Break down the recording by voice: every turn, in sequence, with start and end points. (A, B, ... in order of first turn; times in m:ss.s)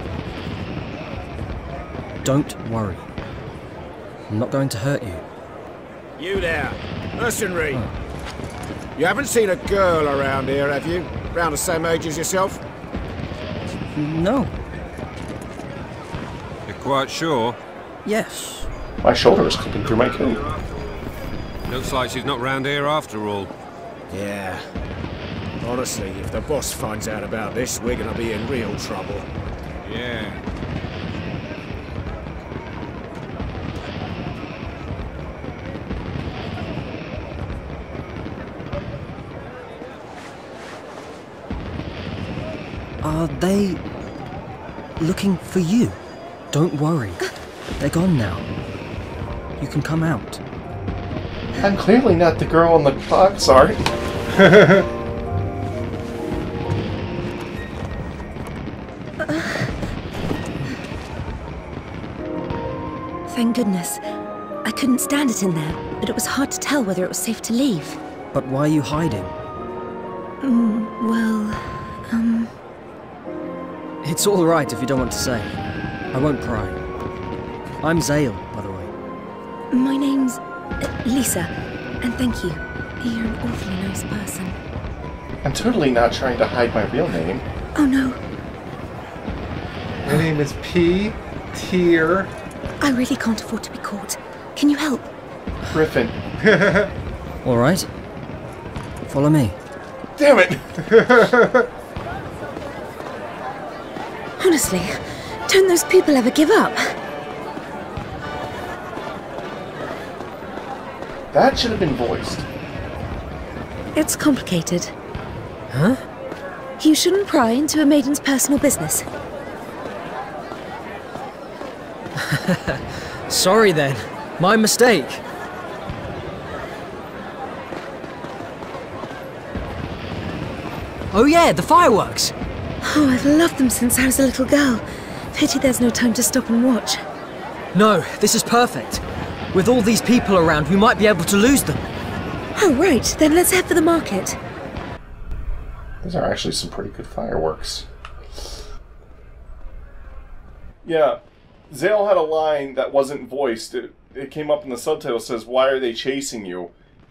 0:02.2-0:03.0 A
0:04.3-0:05.2 A
0:06.2-0:07.8 B
0:09.0-0:12.6 B
0:14.0-0:14.5 A
0:16.7-0:17.6 C
0:18.0-0:18.7 A
0:19.0-0:20.4 D
0:21.6-0:23.5 C
0:24.1-0:24.7 B
0:25.6-0:29.3 B
0:29.9-0:30.3 B
0:43.0-0:43.8 A
0:45.0-0:46.0 A
0:46.5-0:47.2 A
0:47.8-0:48.5 A
0:49.6-0:50.4 A
0:51.6-0:53.8 D
0:54.3-0:54.9 E
0:59.2-0:59.7 F
1:03.3-1:04.0 F
1:04.6-1:08.0 F
1:08.3-1:09.3 A
1:10.4-1:12.5 F
1:14.0-1:15.5 A
1:16.1-1:16.8 A
1:17.8-1:18.9 A
1:19.7-1:24.6 F
1:25.4-1:27.4 D
1:27.7-1:28.2 F
1:30.0-1:32.3 E
1:32.8-1:35.1 F
1:35.7-1:36.2 D
1:36.4-1:36.9 E
1:37.4-1:37.9 A
1:39.1-1:39.6 A
1:40.2-1:40.7 D
1:40.8-1:41.7 E
1:44.4-1:47.0 F
1:51.3-1:52.5 D
1:54.0-1:54.9 F
1:55.7-1:56.0 A
1:56.8-1:59.0 F
2:02.2-2:05.2 A
2:11.1-2:12.3 A
2:12.8-2:17.0 F
2:17.7-2:21.8 A
2:22.5-2:24.4 F
2:26.0-2:27.8 D
2:30.8-2:36.7 D